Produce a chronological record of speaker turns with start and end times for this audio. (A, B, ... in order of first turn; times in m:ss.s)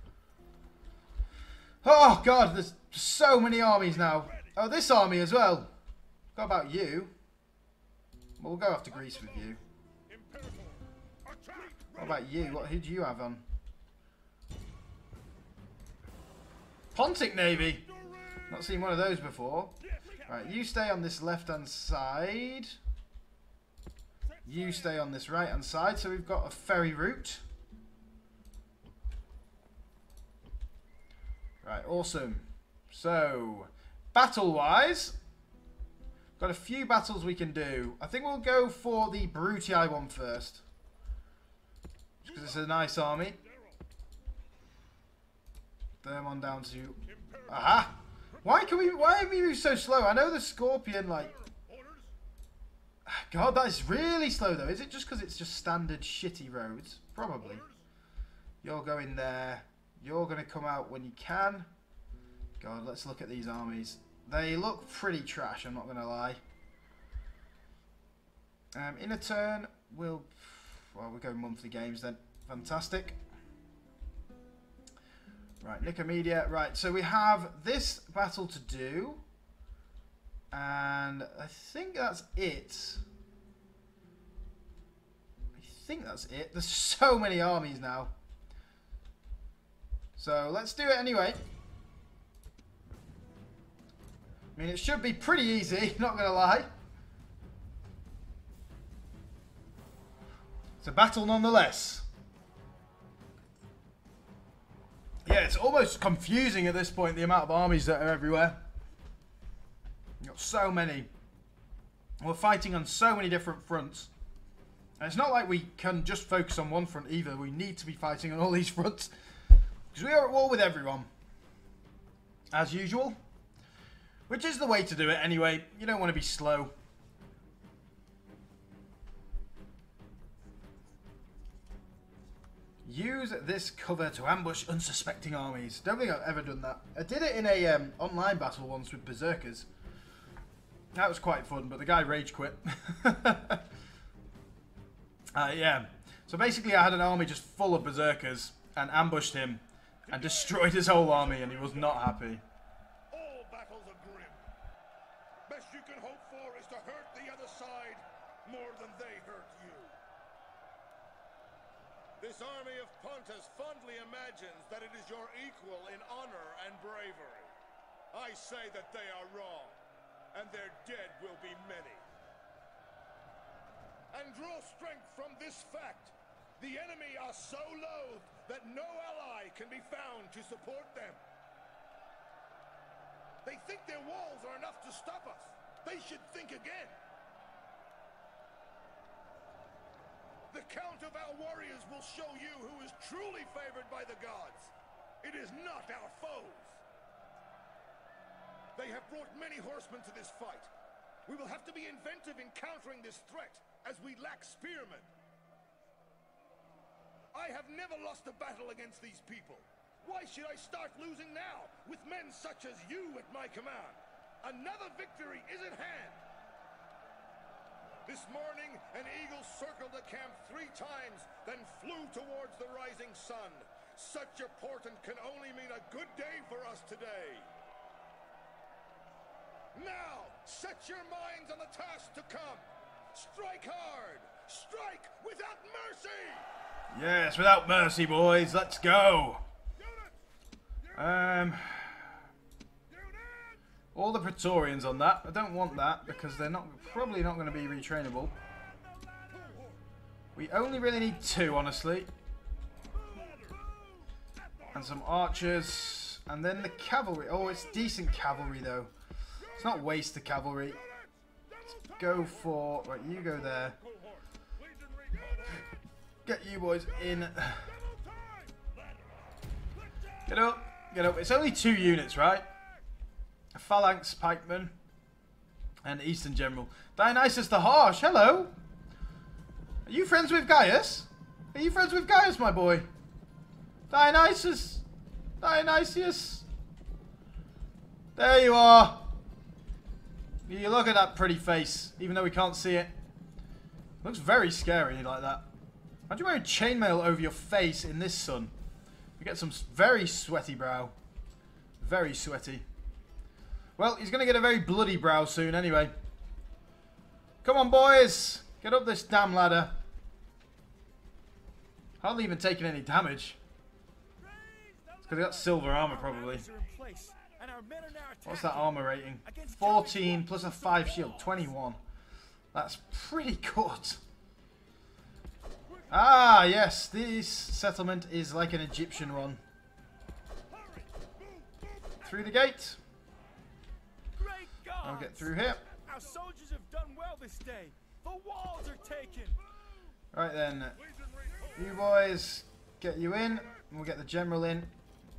0:01.8-0:05.7 A
0:06.4-0:07.1 A
0:08.4-0:09.6 A
0:10.1-0:12.3 B
0:12.0-0:13.4 A
0:16.9-0:17.9 A
0:18.5-0:22.8 A
0:24.5-0:27.4 A
0:31.6-0:35.2 A
0:36.4-0:40.6 A
0:42.2-0:43.4 A
0:46.0-0:51.3 A
0:51.6-0:52.0 B
0:53.1-0:57.6 A
0:58.6-1:01.7 A
1:02.6-1:06.4 A
1:08.8-1:13.2 A
1:15.6-1:19.2 A
1:20.5-1:23.0 A
1:25.6-1:28.1 A
1:30.2-1:31.4 A
1:34.6-1:36.7 A
1:40.8-1:42.1 A
1:45.3-1:48.6 A
1:50.2-1:51.1 A
1:52.2-1:54.1 A
1:55.0-1:59.1 A
1:59.9-2:01.1 A
2:02.5-2:03.2 A
2:04.3-2:06.7 A
2:12.8-2:19.7 A
2:20.9-2:23.6 A
2:25.4-2:32.4 A
2:30.1-2:32.0 B
2:33.1-2:34.4 B
2:35.5-2:39.9 B
2:42.2-2:47.5 B
2:48.1-2:49.8 B
2:50.3-2:52.0 B
2:54.1-3:01.2 B
3:03.4-3:07.0 B
3:10.5-3:16.8 B
3:18.8-3:20.7 B
3:21.3-3:25.1 B
3:27.3-3:36.2 B
3:38.1-3:47.5 B
3:49.7-3:56.5 B
3:56.9-3:59.4 A
4:01.0-4:02.0 A
4:04.0-4:08.3 A
4:09.2-4:09.8 B
4:10.4-4:12.1 A
4:13.0-4:13.7 B
4:14.7-4:18.9 A
4:19.6-4:20.8 A
4:22.0-4:23.8 A
4:24.2-4:25.5 B
4:26.3-4:27.7 A
4:28.1-4:28.8 B
4:30.3-4:32.5 A
4:33.6-4:34.7 A
4:35.8-4:38.5 A
4:39.9-4:42.9 A
4:43.9-4:44.8 A
4:45.4-4:46.5 A
4:48.2-4:49.1 A
4:50.4-4:52.9 A
4:54.0-4:55.4 A
4:56.1-4:58.5 A
4:59.2-5:00.9 A
5:01.8-5:02.6 A
5:03.8-5:05.9 A
5:07.4-5:09.8 A
5:12.0-5:13.4 A
5:15.1-5:16.5 A
5:15.7-5:21.4 C
5:18.2-5:21.8 A
5:22.5-5:24.0 A
5:25.9-5:29.4 A
5:32.0-5:32.8 A
5:34.2-5:35.3 C
5:34.8-5:35.6 A
5:35.8-5:39.4 C
5:40.1-5:40.8 A
5:41.6-5:44.7 A